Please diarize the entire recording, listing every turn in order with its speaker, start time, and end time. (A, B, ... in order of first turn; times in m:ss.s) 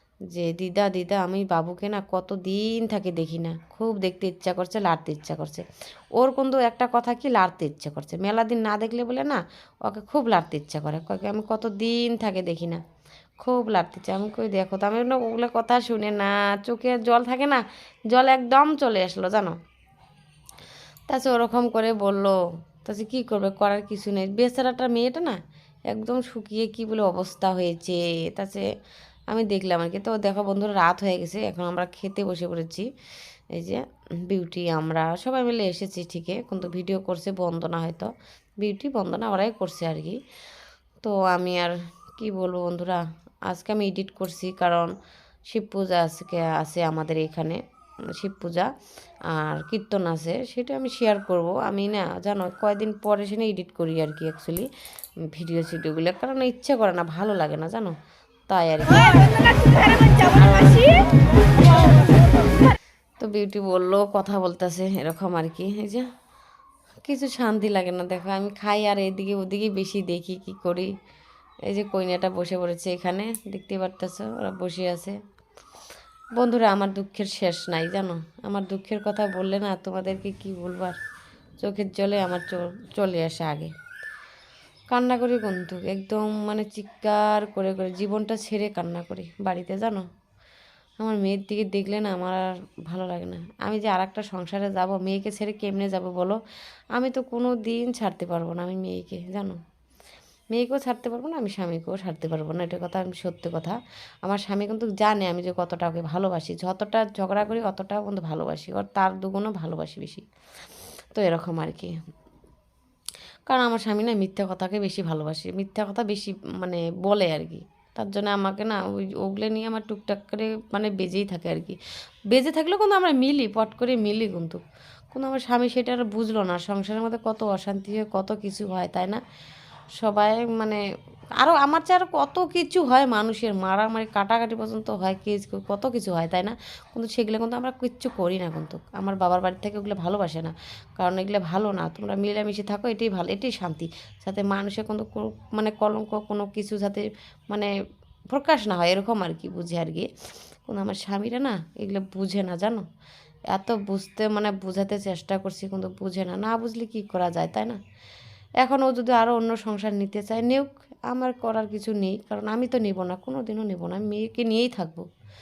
0:00.3-0:05.6 A
0:06.2-0:12.8 A
0:13.4-0:19.5 A
0:21.1-0:25.4 A
0:25.9-0:28.6 A
0:29.3-0:32.9 A
0:33.5-0:38.1 A
0:38.6-0:40.2 A
0:41.0-0:44.9 A
0:45.5-0:47.6 A
0:48.2-0:48.7 A
0:49.3-0:54.7 A
0:55.3-0:57.9 A
0:58.5-1:01.0 A
1:03.2-1:06.0 A
1:07.0-1:10.9 A
1:11.7-1:15.2 A
1:16.4-1:21.0 A
1:21.6-1:23.7 A
1:24.9-1:30.0 A
1:31.0-1:36.4 A
1:36.9-1:39.6 A
1:40.5-1:50.2 A
1:51.1-1:51.9 A
1:53.5-2:01.8 A
2:02.3-2:04.6 A
2:05.1-2:09.2 A
2:10.0-2:10.8 A
2:11.4-2:27.7 A
2:28.3-2:30.1 A
2:30.7-2:32.8 A
2:33.5-2:37.8 A
2:38.6-2:45.0 A